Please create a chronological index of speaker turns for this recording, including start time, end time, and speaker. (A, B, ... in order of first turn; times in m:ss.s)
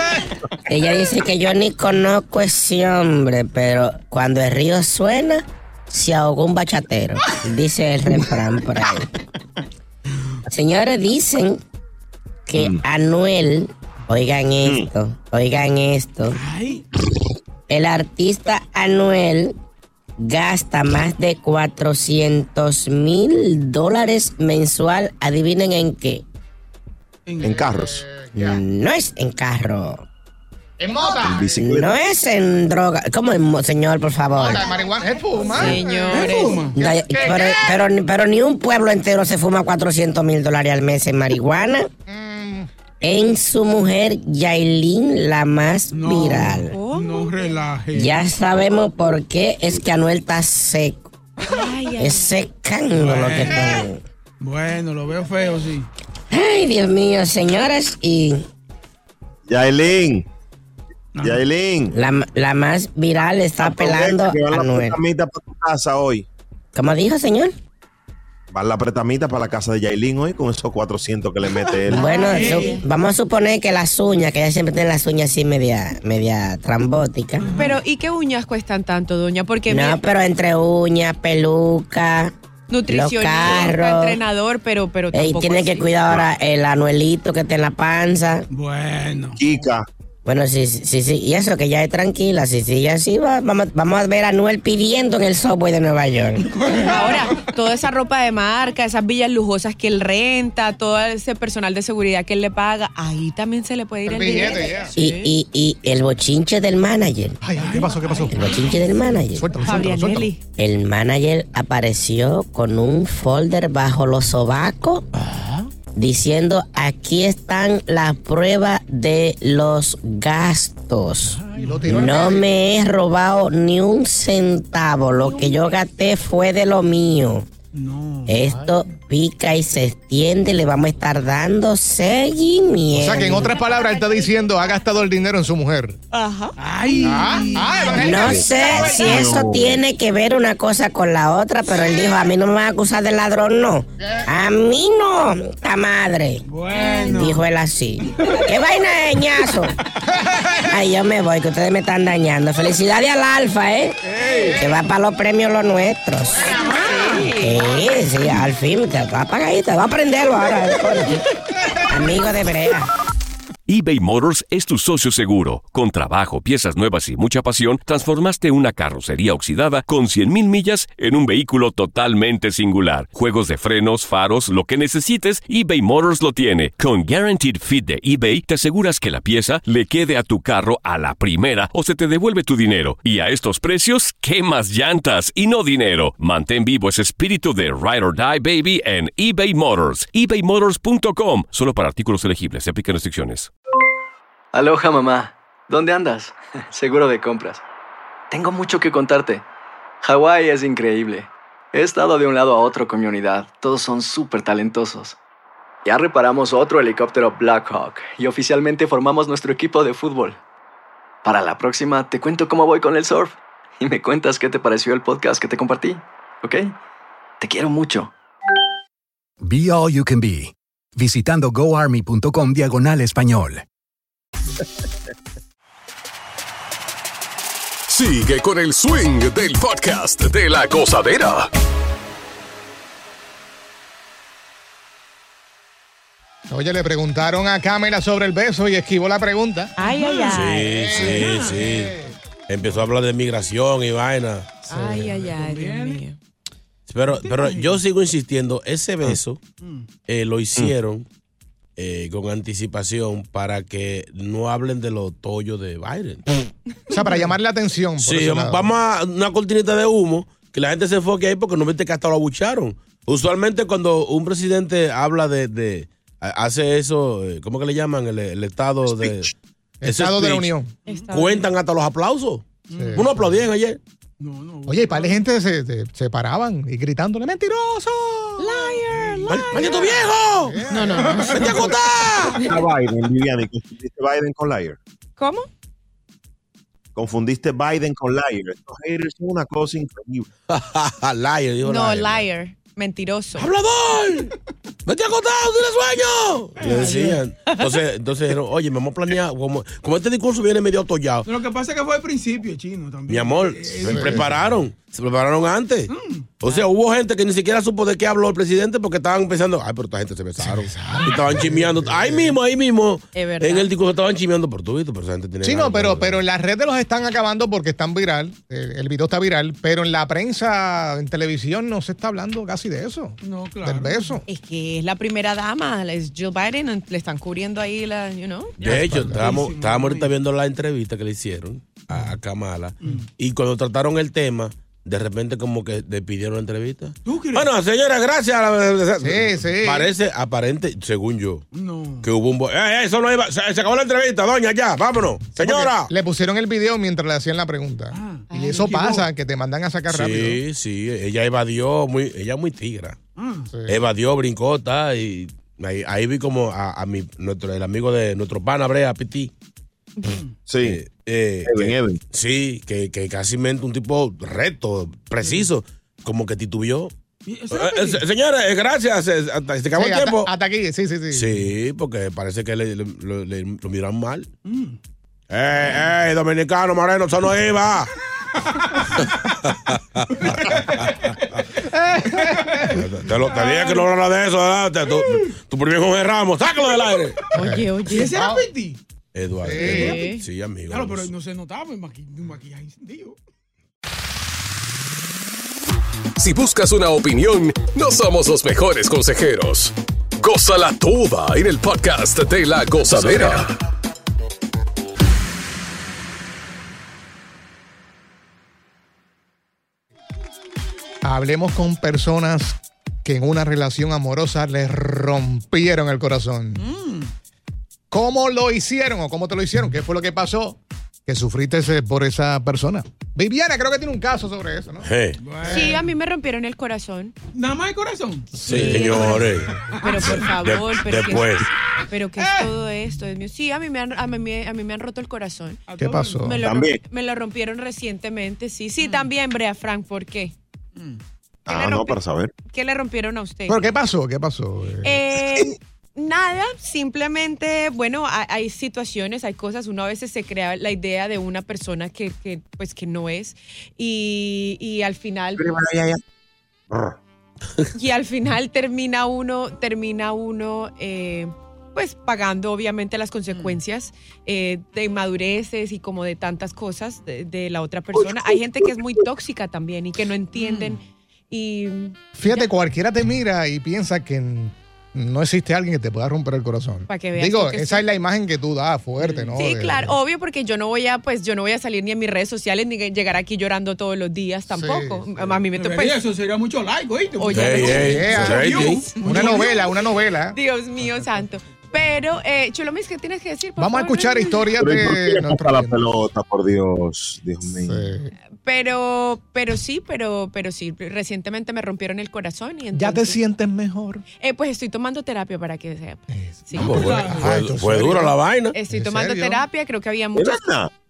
0:00.7-0:09.1 A
0:10.5-0:11.6 A
0:12.5-0:16.4 A
0:12.6-0:12.8 B
0:16.4-0:16.8 C
0:17.7-0:19.6 A
0:20.2-0:26.2 A
0:27.3-0:27.7 C
0:27.4-0:28.6 B
0:27.5-0:28.6 D
0:28.4-0:30.1 A
0:30.8-0:31.7 D
0:31.2-0:32.0 B
0:31.4-0:34.6 A
0:34.4-0:37.8 D
0:34.6-0:36.7 E
0:35.6-0:35.8 A
0:36.1-0:36.8 C
0:36.8-0:41.9 A
0:42.1-0:42.7 D
0:43.0-0:46.8 A
0:45.9-0:48.2 C
0:46.7-0:47.4 E
0:48.0-0:51.1 A
0:51.5-0:52.4 E
0:52.0-0:54.0 A
0:52.9-0:53.8 C
0:54.4-0:55.9 C
0:56.3-0:58.4 A
0:59.5-1:00.3 B
1:01.2-1:01.5 C
1:01.2-1:01.9 B
1:01.9-1:05.0 A
1:03.6-1:06.3 B
1:06.7-1:07.6 A
1:08.5-1:12.4 B
1:11.9-1:12.8 E
1:11.9-1:17.5 A
1:12.2-1:12.7 C
1:17.4-1:17.8 C
1:17.6-1:20.0 E
1:19.7-1:22.3 A
1:22.7-1:25.9 E
1:22.9-1:24.2 A
1:25.1-1:28.5 A
1:28.5-1:29.4 C
1:29.4-1:29.9 B
1:30.2-1:36.5 A
1:36.6-1:37.4 C
1:36.8-1:45.3 E
1:44.0-1:45.0 D
1:45.0-1:47.4 A
1:47.4-1:50.3 D
1:47.6-1:48.8 C
1:48.3-1:49.5 A
1:49.6-1:50.4 E
1:50.6-1:55.0 A
1:55.2-1:55.7 C
1:55.9-2:07.5 A
2:01.3-2:02.2 C
2:01.6-2:02.5 D
2:05.3-2:05.7 E
2:07.7-2:08.4 C
2:08.3-2:13.5 A
2:08.5-2:08.8 D
2:12.9-2:16.0 D
2:13.4-2:14.4 E
2:16.1-2:16.6 E
2:16.6-2:18.2 C
2:17.0-2:19.2 D
2:17.3-2:17.9 E
2:17.9-2:26.4 A
2:18.1-2:19.8 B
2:24.0-2:24.3 D
2:26.5-2:27.4 C
2:26.7-2:27.1 E
2:27.0-2:29.7 A
2:30.7-2:41.2 A
2:34.1-2:34.6 C
2:36.5-2:37.8 E
2:41.8-2:42.9 A
2:43.7-3:13.5 F
3:14.5-3:17.6 G
3:18.3-3:19.4 G
3:20.0-3:25.2 G
3:25.8-3:30.4 G
3:31.2-3:36.8 G
3:37.4-3:38.1 G
3:39.4-3:43.6 H
3:47.9-3:51.5 I
3:56.5-3:59.8 D
3:59.8-4:00.8 E
4:00.0-4:01.6 C
4:00.2-4:01.9 J
4:00.8-4:02.1 D
4:02.5-4:04.5 J
4:04.6-4:06.2 E
4:04.7-4:05.1 D
4:04.9-4:06.0 C
4:06.9-4:09.4 J
4:07.0-4:07.8 C
4:09.6-4:09.9 C
4:10.1-4:11.0 J
4:11.8-4:16.2 J
4:16.9-4:18.7 D
4:16.9-4:17.4 C
4:18.0-4:30.5 J
4:29.8-4:30.7 D
4:30.9-4:31.4 E
4:30.9-4:31.1 C
4:31.1-4:33.8 J
4:32.7-4:33.3 C
4:32.8-4:33.3 D
4:34.2-4:35.3 C
4:34.7-4:38.6 D
4:38.4-4:40.0 E
4:38.9-4:40.1 C
4:39.3-4:40.6 J
4:40.4-4:41.6 D
4:40.7-4:42.6 E
4:40.8-4:41.8 C
4:41.2-4:42.5 J
4:42.4-4:44.8 B
4:45.2-4:45.5 E
4:47.0-4:50.3 B
4:50.5-4:52.3 J
4:51.6-4:53.5 E
4:53.4-4:54.3 J
4:54.9-5:01.3 J
4:56.6-4:57.2 C
4:56.8-4:57.8 E
5:01.3-5:04.6 C
5:03.1-5:16.2 J
5:03.9-5:04.2 D
5:05.9-5:06.6 C
5:10.4-5:12.3 D
5:13.1-5:13.7 E
5:15.4-5:24.2 D
5:23.2-5:24.2 C
5:24.3-5:28.6 E
5:28.6-5:41.4 J
5:28.6-5:30.1 C
5:28.6-5:29.2 D
5:37.0-5:37.5 C
5:39.0-5:39.9 D
5:41.5-5:42.1 C
5:42.0-5:45.9 J
5:45.4-5:50.4 D
5:47.9-5:49.1 C
5:48.3-5:48.6 E
5:49.9-5:53.0 J
5:53.2-5:53.5 C
5:53.5-5:53.8 D
5:53.7-5:59.3 J
6:00.0-6:00.3 C
6:00.5-6:00.8 B
6:00.6-6:06.9 J
6:01.4-6:02.0 B
6:05.2-6:05.5 C
6:07.3-6:08.0 C
6:07.5-6:10.3 J
6:09.8-6:11.5 D
6:11.1-6:14.3 J
6:14.4-6:14.8 C
6:15.3-6:17.9 J
6:19.0-6:21.4 J
6:20.2-6:20.9 C
6:21.8-6:22.6 D
6:21.9-6:23.9 C
6:22.7-6:27.2 J
6:24.9-6:25.3 C
6:27.4-6:28.2 E
6:27.4-6:28.4 D
6:27.9-6:28.8 C
6:29.1-6:31.1 J
6:29.4-6:30.0 D
6:29.6-6:30.2 E
6:29.6-6:30.0 C
6:30.7-6:33.2 C
6:36.2-6:43.5 I
6:51.0-6:56.6 D
6:56.6-6:57.1 C
6:57.9-7:04.9 D
7:04.8-7:05.2 J
7:05.2-7:05.9 C
7:05.4-7:05.8 D
7:05.4-7:07.2 E
7:07.3-7:09.2 C
7:08.4-7:09.5 J
7:08.5-7:15.6 E
7:09.8-7:10.2 C
7:10.1-7:11.5 J
7:12.2-7:12.5 C
7:15.7-7:16.4 C
7:15.8-7:16.4 D
7:16.2-7:20.3 E
7:16.4-7:16.8 B
7:18.8-7:19.1 C
7:21.5-7:22.3 B
7:21.5-7:23.7 E
7:23.5-7:25.2 D
7:24.8-7:35.5 E
7:35.4-7:36.0 B
7:37.7-7:52.5 E
7:43.3-7:43.6 C
7:48.0-7:49.0 B
7:50.3-7:50.8 C
7:52.2-8:00.0 D
7:56.9-7:57.8 E
7:59.0-7:59.4 C
7:59.4-8:06.0 E
8:04.5-8:05.4 D
8:05.6-8:09.5 C
8:07.2-8:09.7 E
8:07.3-8:08.9 J
8:07.8-8:10.4 D
8:10.3-8:14.6 E
8:13.6-8:15.8 D
8:14.6-8:17.8 B
8:17.5-8:18.1 D
8:18.4-8:23.2 E
8:22.7-8:24.0 D
8:24.2-8:26.9 E
8:26.1-8:28.1 D
8:26.6-8:28.6 J
8:26.6-8:27.3 C
8:28.5-8:30.4 E
8:28.7-8:29.4 D
8:30.2-8:30.7 B